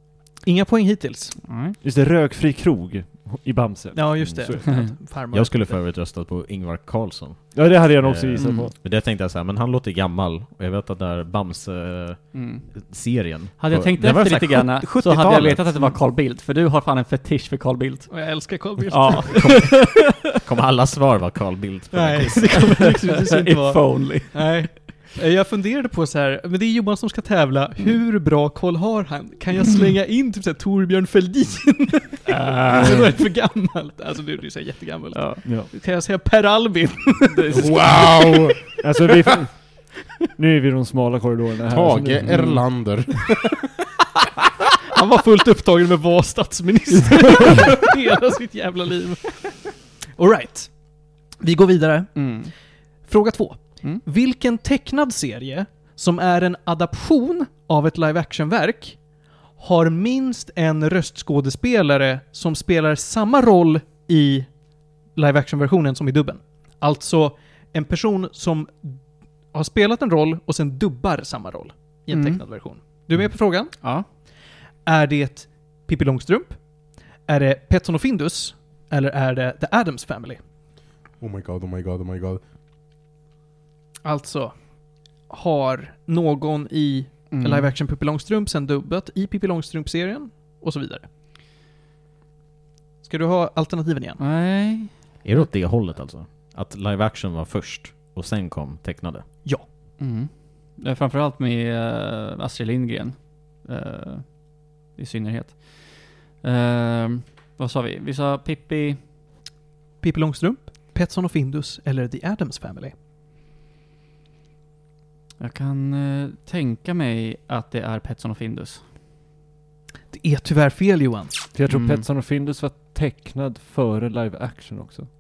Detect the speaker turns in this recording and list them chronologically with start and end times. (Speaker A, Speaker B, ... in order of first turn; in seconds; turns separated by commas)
Speaker A: 0.4-1.4, Speaker B: 1.4-1.8, Speaker C: 1.8-4.6, Speaker A: 3.9-5.8, Speaker D: 5.3-16.0, Speaker C: 7.5-8.7, Speaker B: 8.4-8.7, Speaker B: 12.3-12.7, Speaker B: 13.6-18.1, Speaker A: 18.1-19.6, Speaker B: 18.9-20.0, Speaker D: 19.3-22.7, Speaker A: 21.9-38.8, Speaker B: 22.4-24.5, Speaker B: 32.3-33.1, Speaker B: 35.1-35.5, Speaker C: 35.5-35.7, Speaker B: 37.3-38.0, Speaker E: 37.5-38.6, Speaker C: 38.8-39.8, Speaker C: 40.4-42.4, Speaker E: 41.7-43.6, Speaker B: 42.2-42.6, Speaker A: 44.9-50.7, Speaker A: 51.4-52.5, Speaker B: 52.2-52.5, Speaker A: 53.0-59.0, Speaker A: 59.6-64.5, Speaker A: 65.1-69.0, Speaker A: 69.5-73.8, Speaker B: 72.1-72.4, Speaker B: 73.8-74.1, Speaker A: 74.8-76.6, Speaker A: 77.3-80.4, Speaker E: 81.2-82.4, Speaker A: 84.0-84.5, Speaker A: 85.2-91.1, Speaker B: 87.3-87.7, Speaker A: 93.0-94.2, Speaker B: 94.2-95.4, Speaker D: 95.2-99.3, Speaker B: 100.0-104.4, Speaker B: 104.9-109.0, Speaker A: 110.0-112.9, Speaker B: 115.4-118.8, Speaker A: 120.1-121.5, Speaker C: 121.5-125.1, Speaker B: 121.7-122.0